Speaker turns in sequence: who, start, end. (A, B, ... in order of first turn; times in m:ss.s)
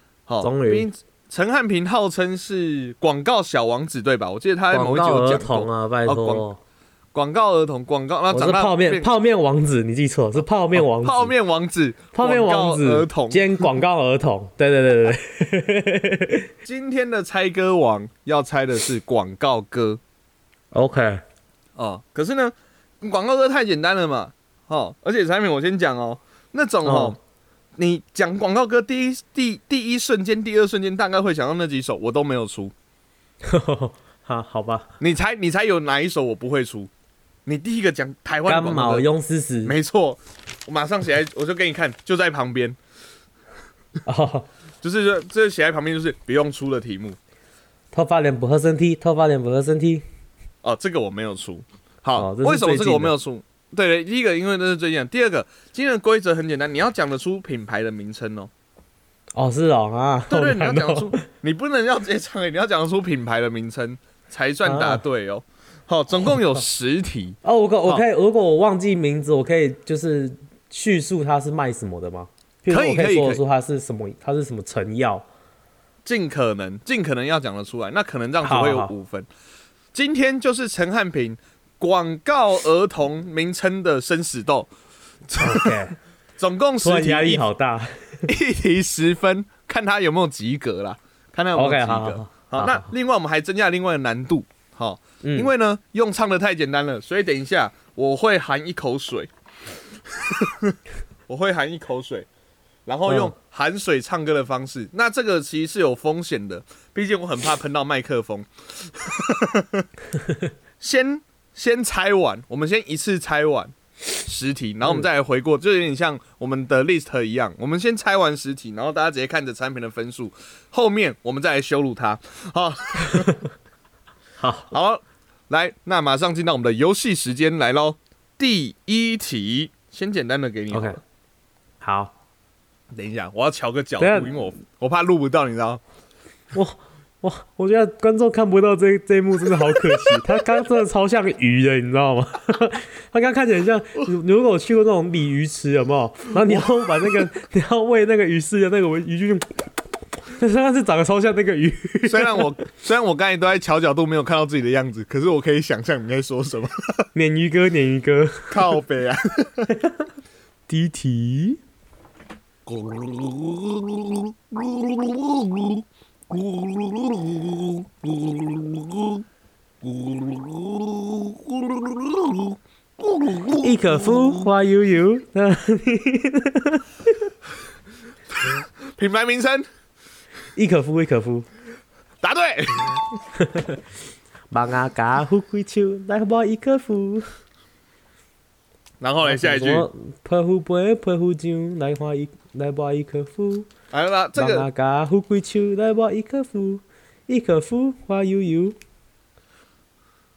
0:00.3-0:06.5 A
0:00.4-0:00.9 B
0:04.7-0:06.6 B
0:07.1-0:09.1 A
0:08.3-0:11.3 B
0:10.8-0:13.7 A
0:12.1-0:16.5 B
0:16.6-0:20.0 A
0:20.7-0:21.2 B
0:21.8-0:27.2 A
0:26.8-0:27.2 B
0:27.8-0:32.7 A
0:33.4-0:34.9 B
0:35.0-0:36.9 A
0:37.5-0:39.1 A
0:38.5-0:39.7 B
0:39.6-0:42.8 A
0:44.1-0:44.5 B
0:44.8-0:47.2 A
0:47.9-0:50.0 B
0:50.6-0:58.5 A
0:52.2-0:53.1 B
0:59.4-1:01.2 B
1:00.3-1:08.0 A
1:04.6-1:05.0 B
1:07.4-1:15.2 B
1:12.7-1:13.4 A
1:16.0-1:19.3 A
1:18.4-1:18.9 B
1:19.9-1:24.7 A
1:25.3-1:25.8 A
1:25.4-1:26.0 B
1:26.4-1:27.4 A
1:26.8-1:28.2 B
1:28.3-1:39.3 A
1:31.6-1:32.9 B
1:35.2-1:35.5 B
1:40.2-1:40.8 A
1:41.3-1:42.3 A
1:42.9-1:49.8 A
1:43.1-1:43.3 B
1:50.8-2:03.3 A
2:04.4-2:04.7 B
2:04.7-2:11.0 A
2:10.7-2:11.0 B
2:11.8-2:12.1 B
2:12.9-2:15.8 A
2:14.0-2:14.4 B
2:16.5-2:29.6 B
2:30.3-2:32.5 B
2:32.0-2:37.1 A
2:37.2-2:38.8 B
2:38.5-2:39.7 A
2:39.8-2:40.1 B
2:40.7-2:41.6 B
2:42.7-2:49.2 A
2:49.9-2:53.7 A
2:53.6-2:57.2 B
2:58.5-2:59.7 A
3:00.6-3:01.5 B
3:02.2-3:03.0 A
3:03.4-3:03.8 B
3:04.5-3:07.2 B
3:09.0-3:09.9 A
3:09.2-3:13.7 B
3:13.9-3:14.7 A
3:14.4-3:18.8 B